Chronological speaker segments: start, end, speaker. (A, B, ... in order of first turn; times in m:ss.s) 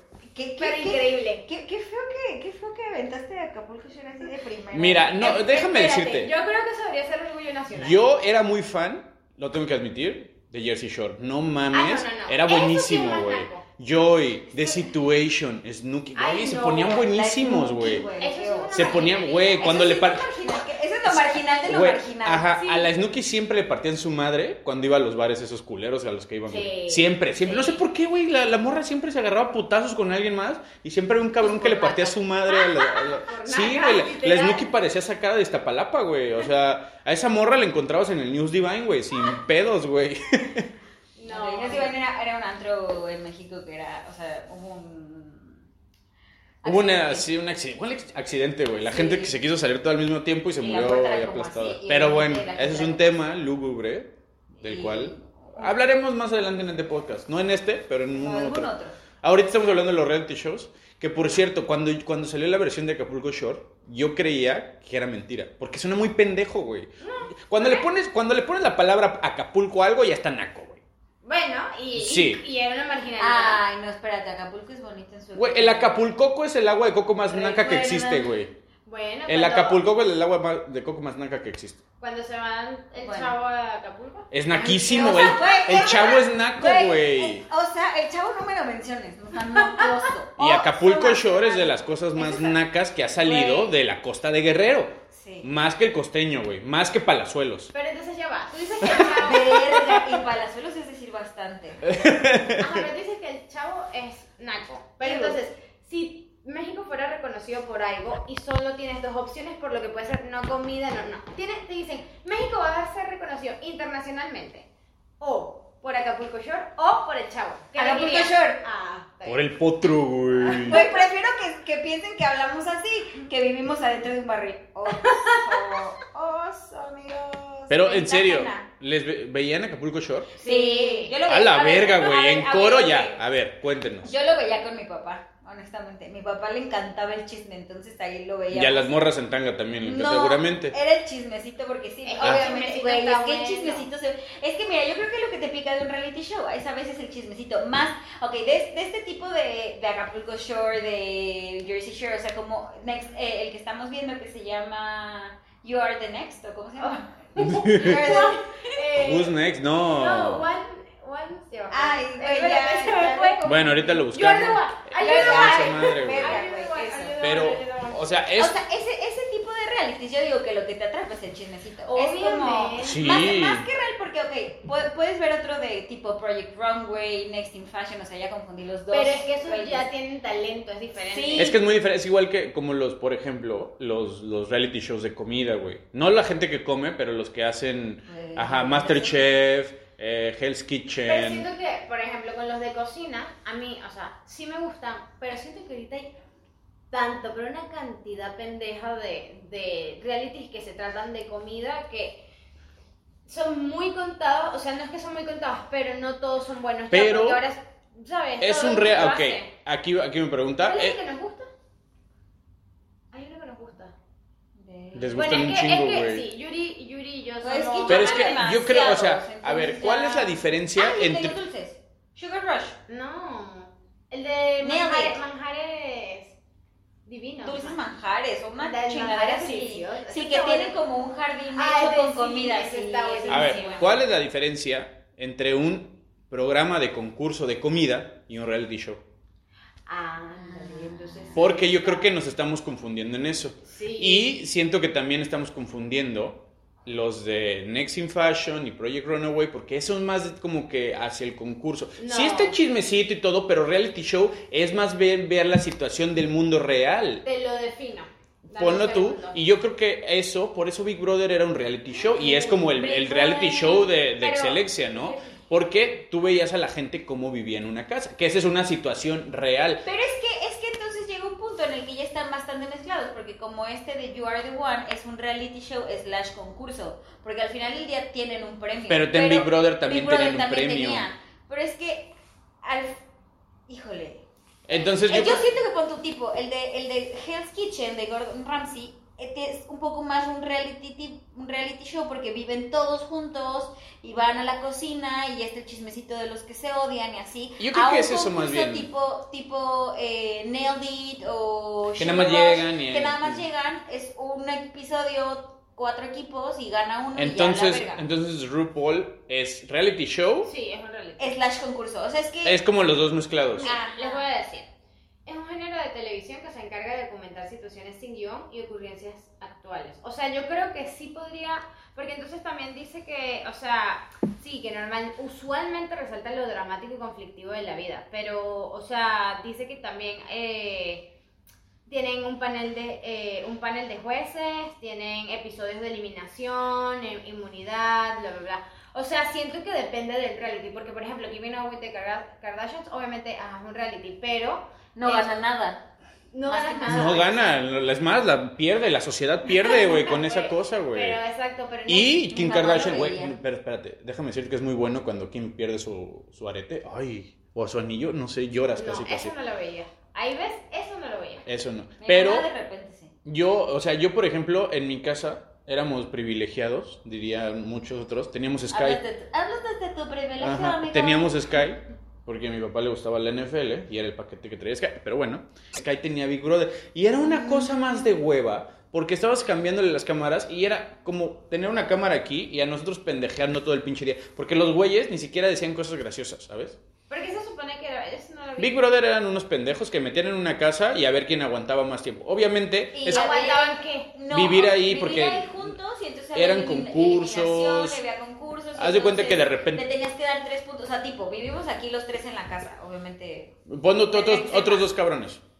0:00.3-0:05.2 A
0:00.6-0:01.4 B
0:04.7-0:06.3 C
0:05.2-0:08.0 B
0:07.7-0:18.1 C
0:11.7-0:13.6 B
0:16.2-0:17.2 B
0:17.1-0:19.1 A
0:18.0-0:20.3 B
0:18.7-0:20.3 C
0:19.6-0:22.6 A
0:21.0-0:40.7 C
0:22.6-0:22.9 B
0:26.5-0:27.8 B
0:31.4-0:34.7 B
0:41.2-0:42.0 B
0:41.3-0:45.6 A
0:46.6-0:47.3 A
0:46.6-1:10.8 C
0:48.8-0:49.3 A
0:50.6-0:53.1 A
0:54.6-0:55.8 A
0:58.2-0:59.0 A
1:07.0-1:07.9 B
1:11.2-1:13.6 B
1:12.0-1:12.4 C
1:13.2-1:16.0 A
1:15.4-1:18.5 C
1:17.3-1:18.3 A
1:18.9-1:19.8 B
1:19.3-1:21.8 C
1:22.0-1:26.2 B
1:23.0-1:23.3 A
1:24.3-1:27.5 C
1:24.6-1:32.6 A
1:29.6-1:30.1 B
1:30.4-1:37.7 C
1:33.2-1:33.7 A
1:35.1-1:35.5 A
1:37.7-1:39.9 B
1:39.0-1:41.9 A
1:39.7-1:40.0 C
1:41.8-1:42.8 C
1:42.6-1:54.7 B
1:45.0-1:45.4 A
1:55.2-1:59.5 B
1:57.8-1:58.6 A
1:59.2-2:00.8 C
2:00.4-2:01.1 B
2:00.6-2:08.7 A
2:05.0-2:05.8 B
2:07.7-2:10.4 C
2:10.4-2:11.2 B
2:10.4-2:13.2 A
2:11.3-2:14.1 C
2:14.0-2:18.9 A
2:18.5-2:20.8 C
2:19.8-2:38.8 A
2:22.0-2:23.9 B
2:22.2-2:22.5 C
2:36.8-2:48.1 B
2:37.4-2:38.2 C
2:39.0-2:40.5 C
2:41.7-2:47.1 A
2:43.4-2:46.4 C
2:47.2-2:48.6 C
2:48.4-2:59.9 A
2:51.9-2:53.2 B
2:52.8-2:53.7 C
2:58.9-3:01.6 B
3:01.1-3:01.6 A
3:01.4-3:11.5 C
3:08.1-3:09.3 A
3:11.0-3:16.2 B
3:16.9-3:22.3 B
3:23.3-3:29.5 B
3:26.9-3:27.4 C
3:28.4-3:31.0 C
3:30.6-3:31.5 B
3:33.1-3:33.9 B
3:34.6-3:35.2 A
3:34.9-3:36.3 C
3:35.2-3:38.4 B
3:37.4-3:42.8 A
3:37.9-3:41.4 C
3:42.9-3:46.4 B
3:44.6-3:45.2 A
3:47.1-3:47.8 B
3:47.4-3:53.9 A
3:48.6-3:50.8 B
3:51.6-3:54.0 B
3:53.3-3:59.0 C
3:59.9-4:02.0 B
4:00.4-4:01.4 A
4:01.4-4:17.2 C
4:03.7-4:04.2 B
4:12.0-4:12.6 B
4:17.2-4:19.4 B
4:18.5-4:29.8 C
4:22.0-4:22.7 B
4:22.5-4:25.4 A
4:24.2-4:24.6 B
4:29.8-4:43.0 A
4:38.9-4:41.0 C
4:43.7-5:08.0 A
4:44.7-4:45.5 C
4:45.1-4:45.4 B
4:57.6-4:58.9 C
5:02.0-5:03.4 C
5:07.2-5:10.5 C
5:10.4-5:11.4 B
5:11.2-5:12.6 A
5:12.4-5:13.7 C
5:13.6-5:14.7 B
5:13.6-5:14.2 A
5:15.3-5:31.1 B
5:31.9-5:45.3 B
5:45.0-5:45.8 A
5:46.3-5:47.4 B
5:46.5-5:47.3 A
5:46.9-5:51.2 C
5:49.6-5:52.7 B
5:51.9-5:59.3 C
5:52.3-5:53.4 A
5:58.8-6:01.5 B
6:01.5-6:02.5 C
6:02.0-6:03.1 A
6:03.2-6:09.0 C
6:08.7-6:11.5 A
6:10.4-6:26.8 C
6:17.2-6:18.0 A
6:27.1-6:28.8 B
6:28.6-6:33.3 C
6:32.9-6:43.6 A
6:33.1-6:34.1 B
6:34.3-6:35.8 C
6:36.3-6:38.0 C
6:38.8-6:39.9 C
6:43.7-6:45.4 C
6:44.1-6:44.9 A